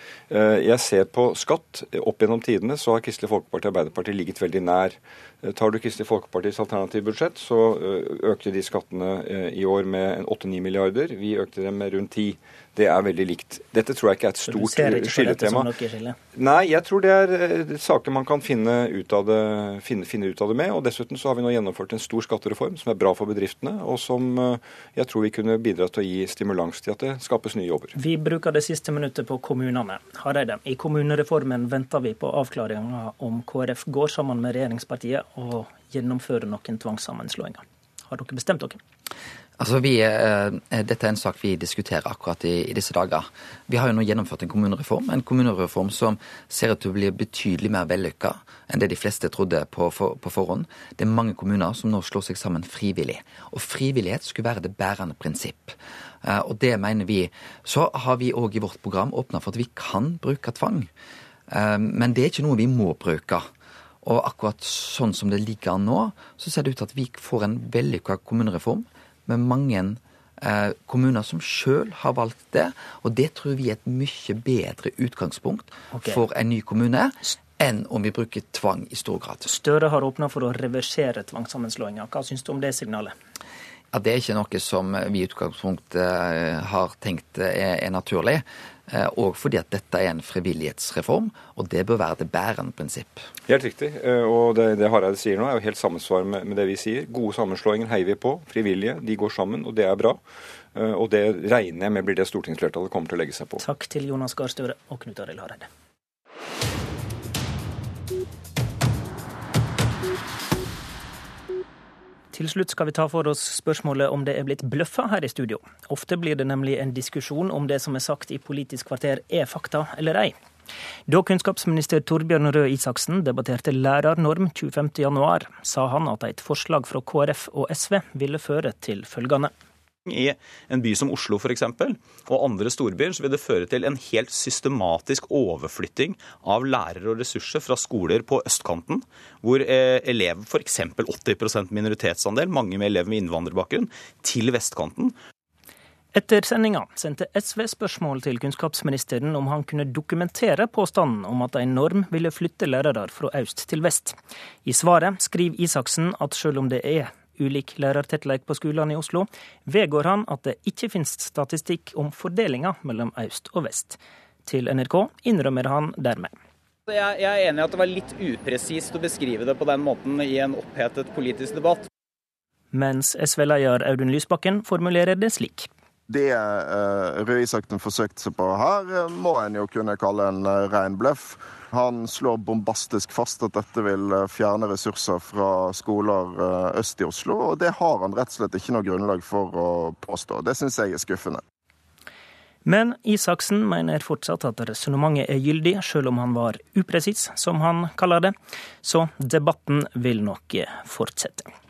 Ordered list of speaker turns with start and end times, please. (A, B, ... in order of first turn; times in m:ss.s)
0:00.3-0:15.7 A
0:14.4-0:16.2 B
0:16.3-0:27.9 A
0:28.0-0:38.8 B
0:39.6-1:00.9 C
1:01.5-1:03.4 C
1:04.0-1:19.5 C
1:15.9-1:16.2 B
1:19.4-1:23.1 B
1:23.9-1:33.3 C
1:33.5-1:40.2 A
1:40.7-1:43.6 A
1:43.6-1:45.7 B
1:52.3-2:00.3 B
2:01.1-2:09.5 B
2:10.1-2:25.1 D
2:26.1-2:46.3 B
2:46.9-2:51.9 E
2:52.7-2:55.7 B
2:56.1-3:11.4 F
3:12.6-3:21.5 B